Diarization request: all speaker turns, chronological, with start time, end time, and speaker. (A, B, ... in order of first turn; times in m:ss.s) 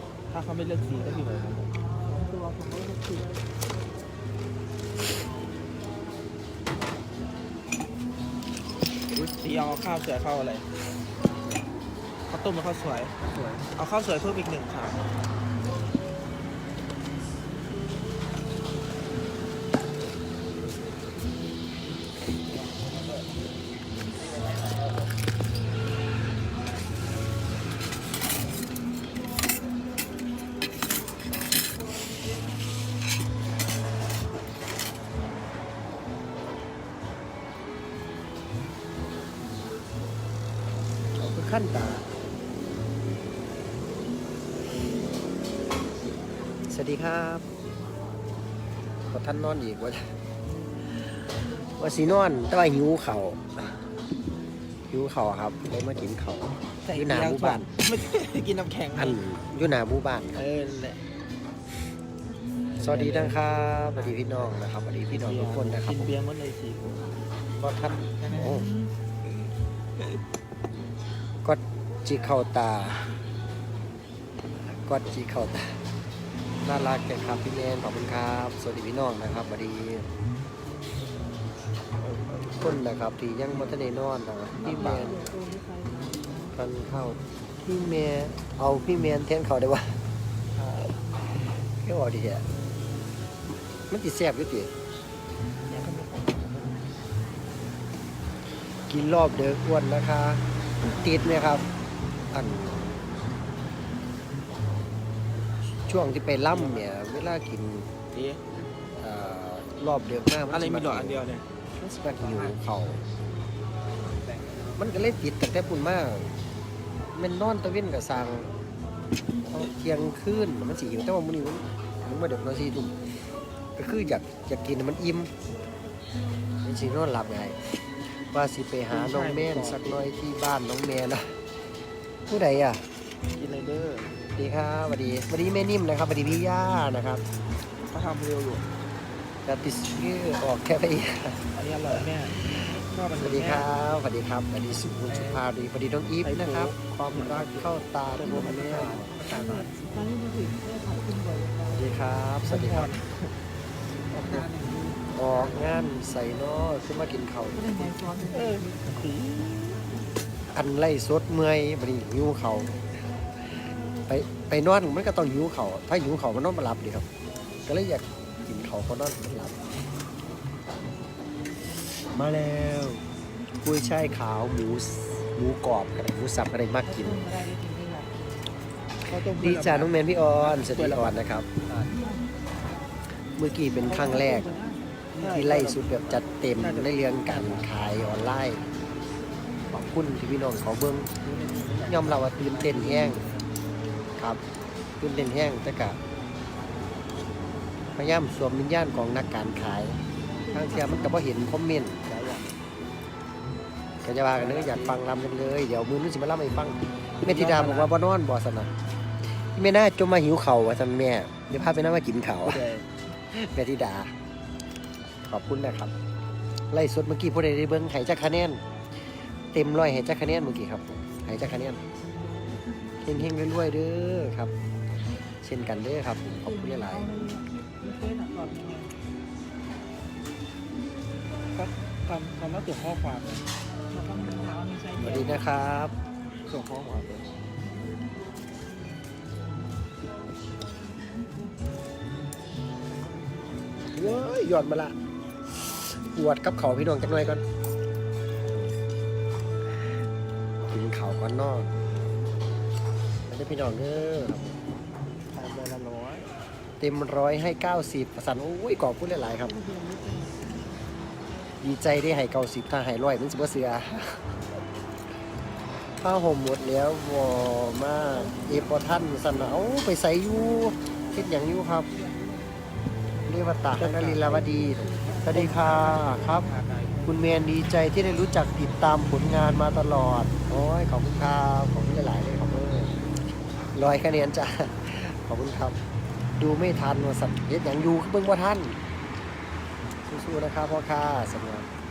0:00.3-0:01.7 A
0:01.8-0:03.3 B
0:09.2-0:10.7 A
0:12.3-0:15.0 A
0:41.2-0:42.1 C
0:46.7-0:47.4 C
0:49.1-0:50.0 C
0:50.9-0:51.2 C
0:51.8-0:53.8 C
0:54.9-0:57.7 C
0:56.8-0:59.2 A
0:59.0-1:00.5 C
1:00.3-1:01.0 A
1:02.7-1:04.6 A
1:02.8-1:06.1 C
1:05.1-1:07.1 A
1:07.6-1:08.7 C
1:08.2-1:08.9 A
1:11.4-1:13.0 C
1:14.9-1:15.8 C
1:16.6-1:20.1 C
1:22.0-1:22.8 A
1:22.4-1:25.2 C
1:23.5-1:23.8 A
1:24.5-1:25.2 A
1:24.7-1:26.6 B
1:26.5-1:30.0 C
1:30.6-1:30.9 A
1:30.8-1:32.5 C
1:33.5-1:34.7 C
1:35.7-1:36.6 A
1:38.9-1:41.6 C
1:42.3-1:43.1 C
1:45.9-1:47.9 C
1:46.4-1:46.9 A
1:48.1-1:48.4 A
1:49.0-1:51.2 C
1:50.5-1:51.4 A
1:51.8-1:53.0 C
1:54.8-1:56.3 C
1:57.2-1:58.5 C
1:59.4-2:03.0 C
2:03.8-2:05.3 C
2:06.6-2:11.4 C
2:08.9-2:10.1 A
2:12.3-2:12.8 C
2:13.4-2:14.3 A
2:14.3-2:17.2 C
2:17.9-2:18.6 A
2:19.4-2:29.2 C
2:21.5-2:23.7 A
2:26.2-2:29.7 A
2:29.5-2:31.9 B
2:31.7-2:33.0 C
2:32.4-2:33.3 A
2:34.1-2:34.5 A
2:35.1-2:37.8 C
2:37.5-2:39.0 B
2:38.3-2:39.8 A
2:40.5-2:42.8 C
2:44.1-2:47.1 C
2:47.7-2:49.6 C
2:51.7-2:53.0 C
2:53.6-2:57.3 C
2:56.9-2:58.6 B
2:59.1-3:01.9 A
2:59.4-3:01.5 C
3:01.9-3:02.4 B
3:03.4-3:04.6 C
3:03.8-3:04.9 B
3:05.1-3:07.7 A
3:05.2-3:08.6 C
3:09.7-3:11.1 C
3:11.2-3:13.4 A
3:11.8-3:13.2 C
3:15.0-3:16.0 C
3:17.9-3:20.0 C
3:20.3-3:21.3 B
3:20.5-3:22.0 C
3:22.0-3:22.5 A
3:24.0-3:28.7 C
3:24.3-3:25.0 A
3:27.2-3:27.9 A
3:29.6-3:32.7 C
3:32.4-3:32.9 A
3:33.3-3:34.1 C
3:35.3-3:35.9 C
3:36.7-3:38.6 C
3:39.5-3:41.8 C
3:43.0-3:44.5 C
3:45.4-3:47.1 C
3:46.2-3:48.9 B
3:51.5-3:53.5 A
3:53.9-3:55.4 B
3:55.0-3:55.9 C
3:56.5-3:57.3 A
4:03.9-4:04.9 C
4:04.0-4:04.3 A
4:05.6-4:07.4 C
4:10.7-4:11.7 C
4:13.3-4:14.6 C
4:15.3-4:16.3 A
4:16.8-4:19.6 C
4:19.5-4:20.5 B
4:21.6-4:24.4 C
4:26.0-4:31.9 C
4:31.8-4:32.6 B
4:33.3-4:36.5 C
4:33.8-4:34.4 A
4:34.2-4:37.0 B
4:35.0-4:37.1 A
4:37.1-4:43.0 C
4:43.7-4:45.8 C
4:46.4-4:48.8 C
4:50.1-4:51.7 C